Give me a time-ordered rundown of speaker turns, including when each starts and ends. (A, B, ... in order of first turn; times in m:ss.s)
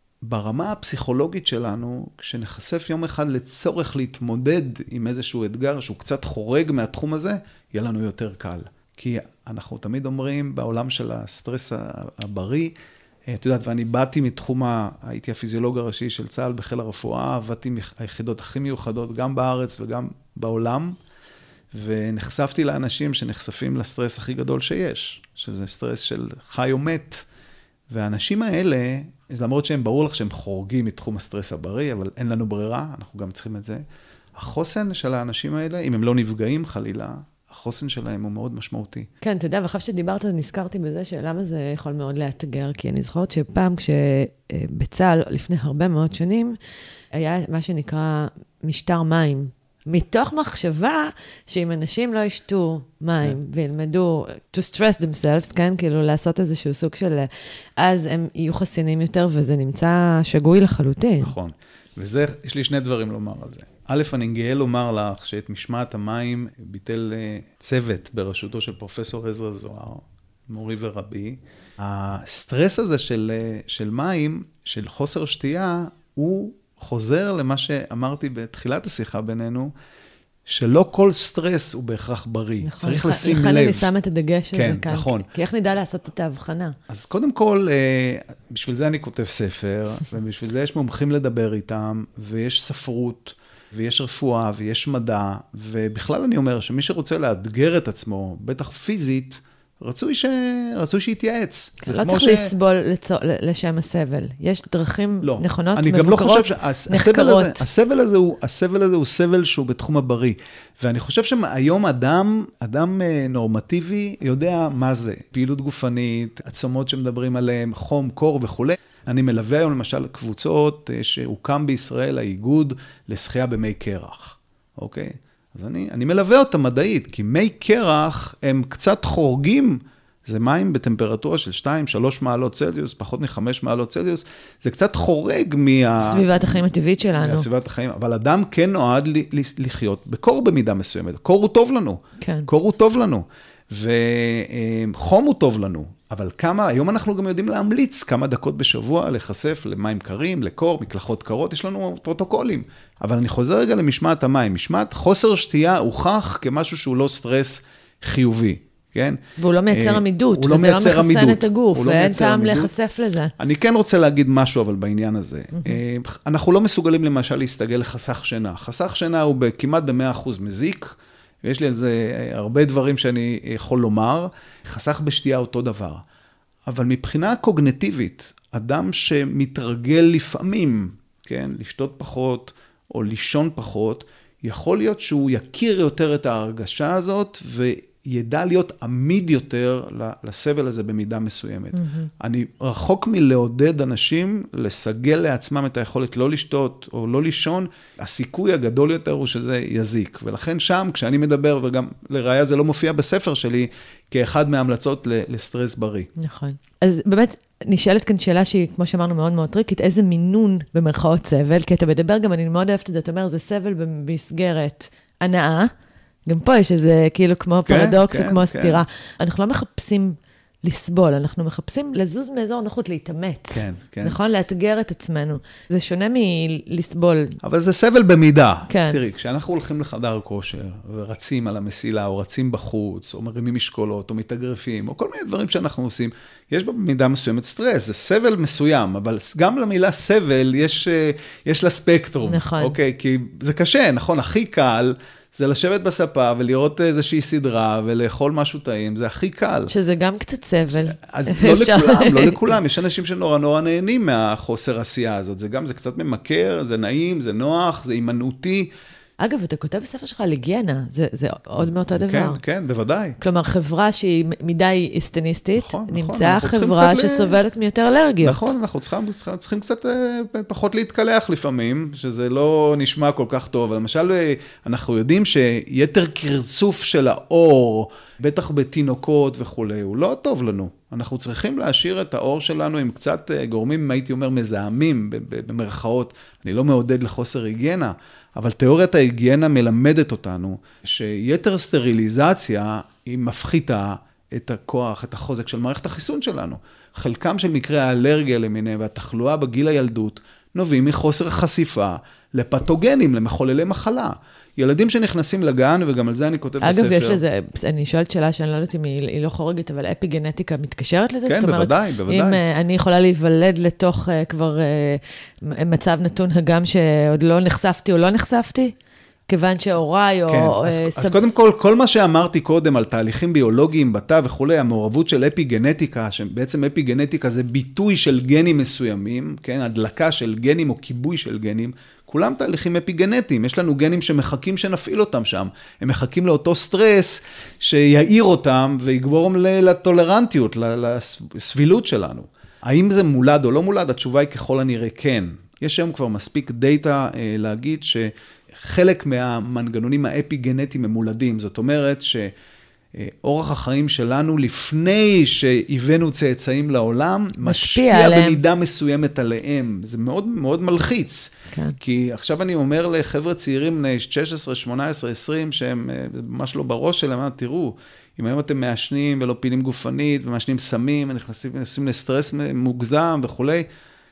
0:00.2-0:12.7 A
0:13.3-0:20.9 A
0:21.7-0:27.2 A
0:27.9-0:33.8 A
0:34.3-0:39.1 A
0:39.2-0:46.6 B
0:47.1-1:01.3 B
1:01.2-1:19.7 A
1:20.4-1:23.9 A
1:22.6-1:26.7 B
1:24.5-1:25.3 A
1:26.9-1:42.5 A
1:41.8-1:47.6 B
1:45.2-2:42.7 A
2:16.0-2:17.5 B
2:22.2-2:22.5 B
2:39.4-2:43.3 B
2:43.4-2:50.9 A
2:45.5-2:45.8 B
2:51.4-2:56.0 A
2:56.7-3:26.1 A
3:11.7-3:12.1 B
3:26.2-3:35.7 B
3:36.3-3:47.4 B
3:37.7-3:38.8 A
3:43.5-3:44.2 A
3:47.4-4:09.7 A
3:48.7-3:49.0 B
4:02.2-4:02.8 B
4:09.7-4:12.6 B
4:10.8-4:18.7 A
4:19.2-4:22.4 B
4:21.6-4:23.2 A
4:23.2-4:28.5 B
4:25.6-4:27.4 A
4:28.2-5:07.2 A
5:06.6-5:18.7 B
5:11.2-5:12.4 A
5:19.3-5:21.3 B
5:20.3-5:52.3 A
5:52.9-6:13.6 A
5:57.4-5:58.4 B